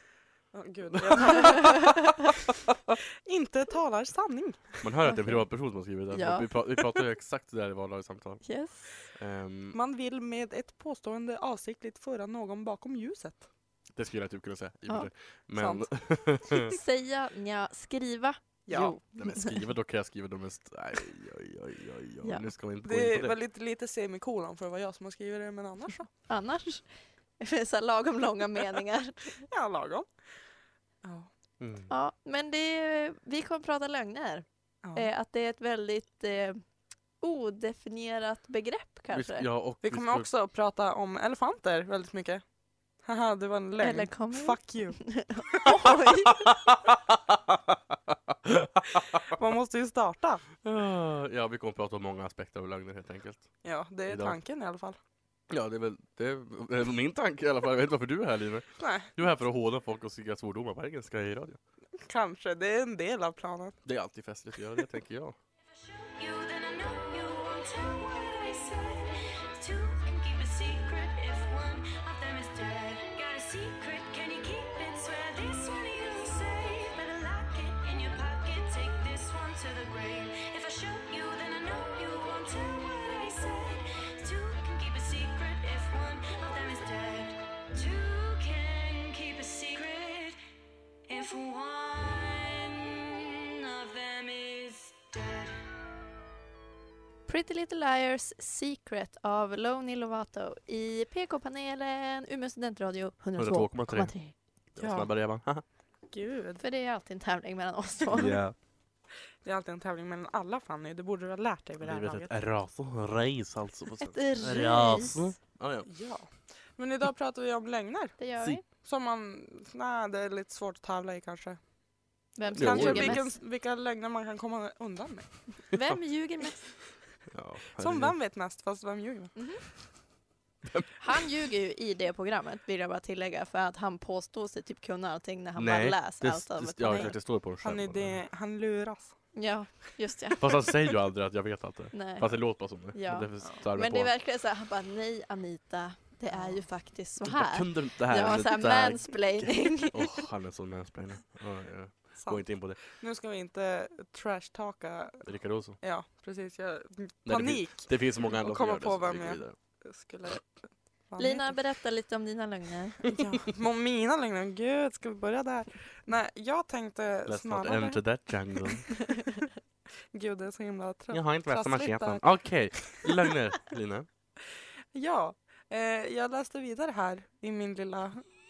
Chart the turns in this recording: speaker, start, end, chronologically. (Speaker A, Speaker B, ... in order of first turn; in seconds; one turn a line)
Speaker A: 0.5-2.1
Speaker B: 0.9-1.9
Speaker C: 1.3-2.1
Speaker A: 3.2-4.8
Speaker B: 4.8-8.4
Speaker C: 5.0-5.4
Speaker C: 6.1-6.5
Speaker C: 8.4-8.9
Speaker B: 9.1-9.8
Speaker A: 9.7-13.4
Speaker B: 13.9-16.8
Speaker A: 15.5-15.9
Speaker C: 16.7-19.5
Speaker A: 18.7-19.0
Speaker B: 19.1-23.4
Speaker A: 22.8-26.1
Speaker C: 26.3-26.9
Speaker C: 27.4-29.4
Speaker A: 29.5-30.1
Speaker A: 31.0-31.3
Speaker B: 31.6-31.9
Speaker C: 31.9-36.6
Speaker A: 34.8-35.1
Speaker C: 37.2-39.5
Speaker B: 39.1-40.3
Speaker A: 39.8-42.4
Speaker A: 43.0-45.7
Speaker C: 43.8-46.5
Speaker B: 46.4-49.3
Speaker A: 49.2-50.4
Speaker B: 50.6-53.5
Speaker A: 53.6-55.0
Speaker B: 54.1-54.4
Speaker B: 55.5-61.6
Speaker A: 58.8-59.1
Speaker A: 62.0-63.8
Speaker B: 63.8-65.3
Speaker D: 65.8-90.4
Speaker D: 91.1-95.7
Speaker C: 97.3-104.3
Speaker B: 103.4-104.1
Speaker B: 104.7-105.6
Speaker A: 104.8-105.1
Speaker A: 106.1-106.6
Speaker C: 106.6-108.4
Speaker B: 108.1-108.5
Speaker A: 109.4-112.3
Speaker B: 111.8-115.9
Speaker C: 114.0-115.2
Speaker A: 115.8-118.2
Speaker C: 118.2-118.6
Speaker A: 118.7-121.6
Speaker C: 122.4-123.3
Speaker A: 122.5-125.3
Speaker B: 122.5-123.2
Speaker C: 125.7-126.7
Speaker B: 125.7-126.0
Speaker B: 127.3-128.1
Speaker A: 127.8-129.3
Speaker C: 129.3-129.6
Speaker B: 130.6-130.9
Speaker C: 131.0-137.1
Speaker B: 135.6-138.2
Speaker A: 137.6-139.2
Speaker C: 139.3-140.5
Speaker B: 140.4-144.1
Speaker C: 141.9-142.3
Speaker C: 142.9-150.3
Speaker B: 147.2-152.8
Speaker A: 152.2-160.5
Speaker B: 155.2-155.8
Speaker B: 157.2-159.5
Speaker A: 161.1-161.6
Speaker C: 161.2-163.0
Speaker A: 163.0-168.0
Speaker B: 167.3-168.9
Speaker A: 170.1-173.3
Speaker B: 171.1-174.1
Speaker A: 174.9-178.2